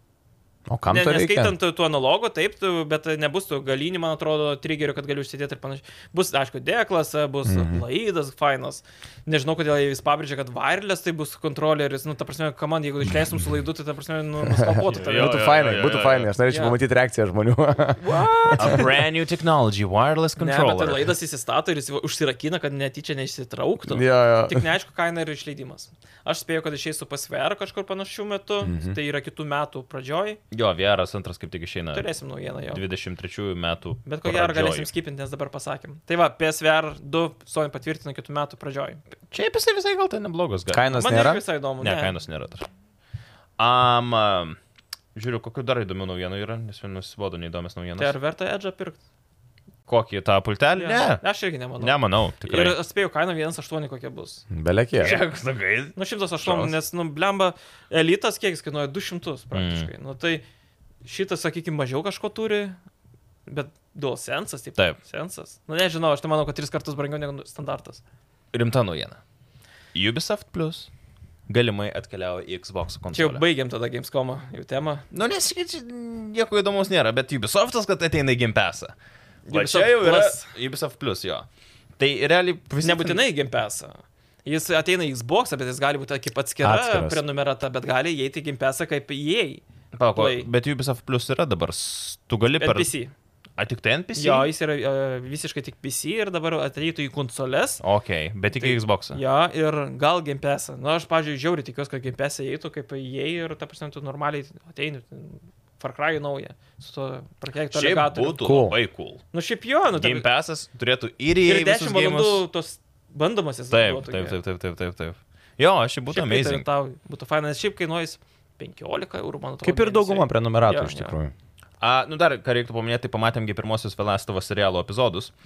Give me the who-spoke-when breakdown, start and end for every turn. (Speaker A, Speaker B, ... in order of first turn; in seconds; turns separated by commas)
Speaker A: 0.7-1.6, Speaker B: 0.9-15.5, Speaker A: 7.5-7.8, Speaker A: 14.5-18.8, Speaker C: 14.9-16.3, Speaker B: 16.5-16.8, Speaker B: 18.0-18.9, Speaker C: 18.6-21.1, Speaker B: 20.4-30.4, Speaker A: 23.9-24.6, Speaker A: 28.6-29.0, Speaker C: 30.5-32.1, Speaker B: 31.9-32.8, Speaker C: 32.7-34.9, Speaker B: 34.0-39.0, Speaker C: 39.3-40.9, Speaker A: 40.7-41.4, Speaker B: 40.9-42.1, Speaker C: 41.8-42.6, Speaker C: 43.6-44.6, Speaker C: 45.1-48.1, Speaker B: 48.0-49.0, Speaker C: 49.9-51.2, Speaker B: 50.8-54.4, Speaker C: 51.8-52.8, Speaker A: 54.5-55.2, Speaker C: 55.0-56.7, Speaker B: 56.0-60.4, Speaker C: 59.5-59.9, Speaker B: 61.0-62.8, Speaker B: 63.5-68.0, Speaker C: 68.5-69.2, Speaker C: 69.9-70.9, Speaker C: 71.5-73.4, Speaker B: 73.1-75.0, Speaker C: 75.1-78.9, Speaker B: 79.5-80.5, Speaker C: 79.5-81.5, Speaker C: 82.0-83.2, Speaker B: 82.8-89.6, Speaker A: 86.6-87.2, Speaker C: 89.9-92.9, Speaker B: 90.1-90.5, Speaker B: 92.6-93.1, Speaker C: 93.6-94.5, Speaker B: 94.2-97.8, Speaker C: 97.8-99.2, Speaker B: 98.5-108.5, Speaker C: 107.7-109.2, Speaker A: 108.4-108.8, Speaker B: 109.3-110.2, Speaker C: 109.9-112.4, Speaker B: 111.4-114.4, Speaker C: 113.7-116.7, Speaker B: 116.1-121.1, Speaker A: 119.6-121.3, Speaker C: 121.8-125.3